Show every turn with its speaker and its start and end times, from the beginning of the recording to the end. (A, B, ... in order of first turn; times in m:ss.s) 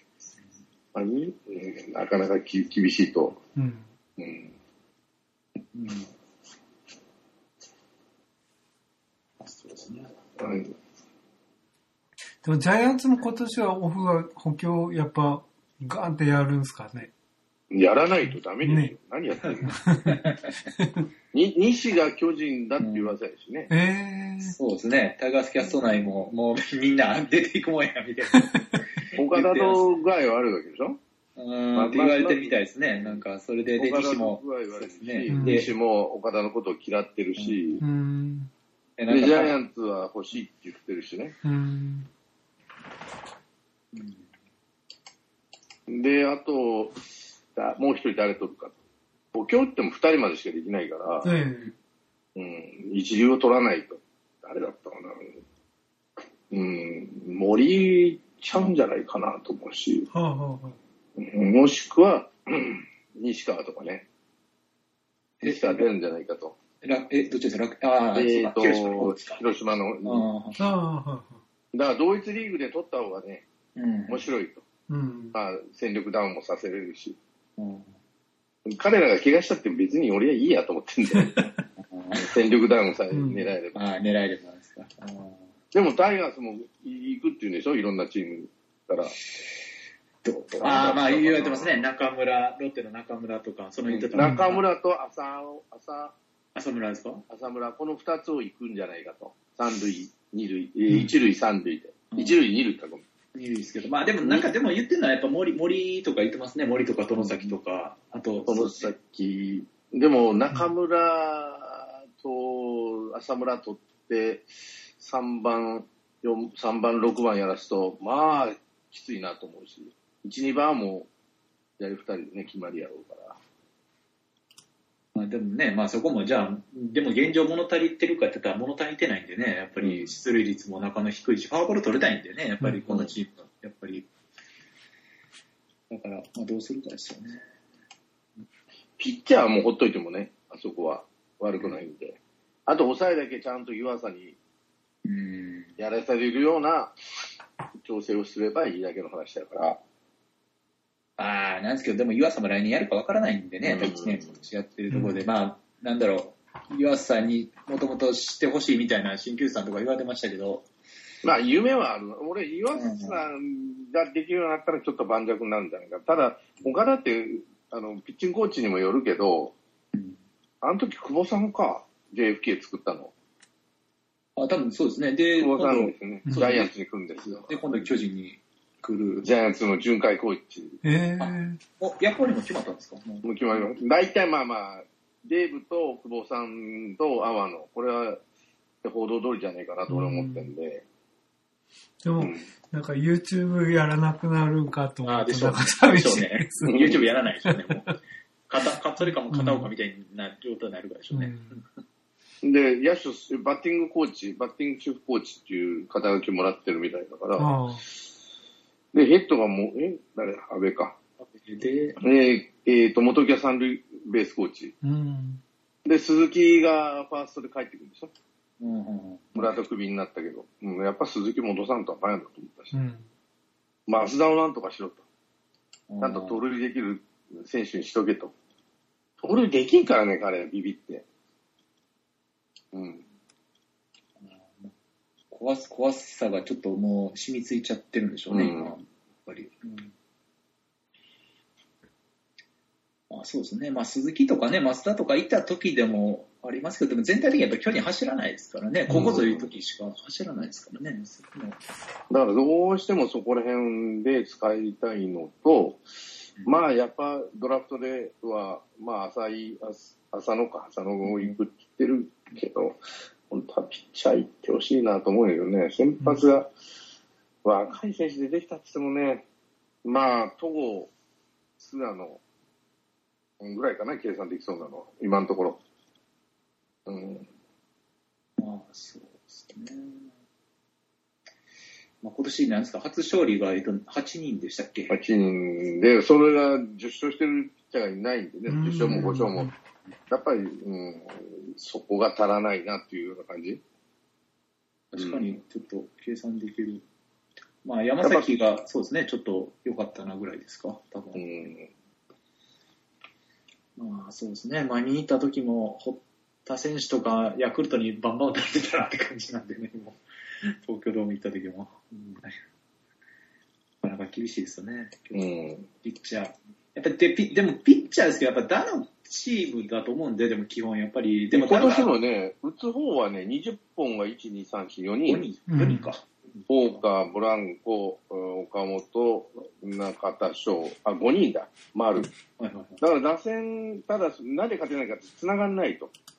0:00.9-0:03.4 A
0:03.6-0:03.8 B
0:04.2-0:04.5 A
0:05.7-0:06.1 C
0:09.4-0:10.3 C
0:10.4-0:10.7 A
0:12.4-0:17.1 B
0:17.7-0:19.7 A
0:18.6-0:19.0 B
0:19.6-0:21.1 B
0:20.0-0:20.5 C
0:21.3-0:23.7 A
0:22.8-0:23.1 C
0:23.7-0:24.6 B
0:24.4-0:29.9 C
0:25.9-0:26.2 A
0:28.4-0:28.8 B
0:29.1-0:31.0 A
0:31.4-0:35.7 C
0:31.7-0:33.2 A
0:33.8-0:37.8 A
0:35.3-0:35.7 B
0:37.4-0:37.8 C
0:37.8-0:38.5 B
0:39.0-0:39.5 C
0:39.1-0:41.3 A
0:41.4-0:42.1 B
0:43.9-0:44.2 C
0:45.9-0:47.0 A
0:47.6-0:48.7 A
0:49.3-0:51.3 A
0:51.2-0:51.7 B
0:52.4-0:55.3 A
0:56.5-1:00.1 A
1:00.1-1:00.8 B
1:01.2-1:04.0 A
1:05.4-1:06.6 A
1:05.4-1:05.8 C
1:06.8-1:09.4 C
1:08.1-1:10.3 A
1:10.0-1:10.6 C
1:10.6-1:11.4 B
1:11.7-1:13.4 A
1:13.8-1:14.2 C
1:14.1-1:14.6 A
1:14.9-1:15.3 B
1:15.3-1:17.2 A
1:17.6-1:17.9 C
1:18.6-1:21.3 A
1:21.1-1:21.6 B
1:21.8-1:22.3 C
1:22.1-1:23.8 A
1:23.1-1:23.5 B
1:23.7-1:25.4 C
1:25.7-1:29.2 A
1:30.2-1:34.6 C
1:30.6-1:31.8 A
1:33.9-1:36.1 A
1:36.5-1:37.2 C
1:37.3-1:43.0 A
1:43.3-1:48.9 C
1:47.2-1:47.5 A
1:48.4-1:54.4 A
1:55.0-2:01.1 A
2:01.8-2:03.4 A
2:05.1-2:14.1 C
2:09.8-2:10.1 A
2:15.9-2:17.4 C
2:19.0-2:24.4 A
2:25.0-2:25.7 C
2:25.8-2:26.9 A
2:27.8-2:29.8 A
2:31.2-2:40.6 C
2:33.6-2:34.4 A
2:34.9-2:35.2 B
2:41.2-2:49.5 A
2:42.7-2:43.2 C
2:50.6-2:53.1 A
2:54.4-2:56.7 C
2:55.4-2:57.9 A
2:57.2-2:59.3 C
2:59.2-3:00.8 A
3:00.8-3:01.6 B
3:01.2-3:03.2 C
3:03.2-3:08.2 A
3:08.8-3:10.8 A
3:09.9-3:10.5 B
3:12.0-3:16.9 B
3:12.2-3:12.4 A
3:15.0-3:17.9 C
3:16.7-3:17.0 A
3:17.4-3:17.9 B
3:18.5-3:21.6 C
3:19.3-3:19.7 B
3:21.1-3:21.5 B
3:22.4-3:27.5 A
3:27.4-3:27.8 B
3:28.9-3:31.0 A
3:31.2-3:32.0 C
3:32.0-3:34.7 A
3:34.8-3:35.4 B
3:35.8-3:38.1 A
3:38.6-3:39.5 C
3:39.3-3:42.7 A
3:42.7-3:43.0 B
3:43.9-3:45.0 A
3:45.9-3:46.4 C
3:46.0-3:48.3 A
3:49.2-3:51.0 A
3:52.7-3:53.0 A
3:54.2-3:54.7 C
3:55.3-3:59.9 C
3:58.3-3:58.7 A
4:03.1-4:11.6 C
4:08.9-4:09.5 A
4:12.1-4:15.8 A
4:16.4-4:26.5 A
4:21.0-4:21.4 C
4:27.4-4:29.2 A
4:29.8-4:30.9 A
4:31.6-4:32.2 A
4:33.4-4:35.6 A
4:36.9-4:37.2 A
4:38.4-4:40.1 C
4:42.0-4:44.9 C
4:44.9-4:49.5 A
4:48.5-4:49.5 B
4:48.9-4:49.2 C
4:50.1-4:53.6 A
4:54.9-4:56.8 C
4:55.0-4:55.4 A
4:57.6-5:01.2 C
4:58.0-4:58.3 A
5:01.2-5:01.7 A
5:03.8-5:12.4 C
5:13.8-5:15.2 C
5:15.1-5:15.7 A
5:15.8-5:21.9 C
5:21.3-5:25.2 A
5:25.1-5:26.4 C
5:25.5-5:25.9 B
5:26.5-5:32.1 A
5:32.4-5:32.8 C
5:32.8-5:35.9 A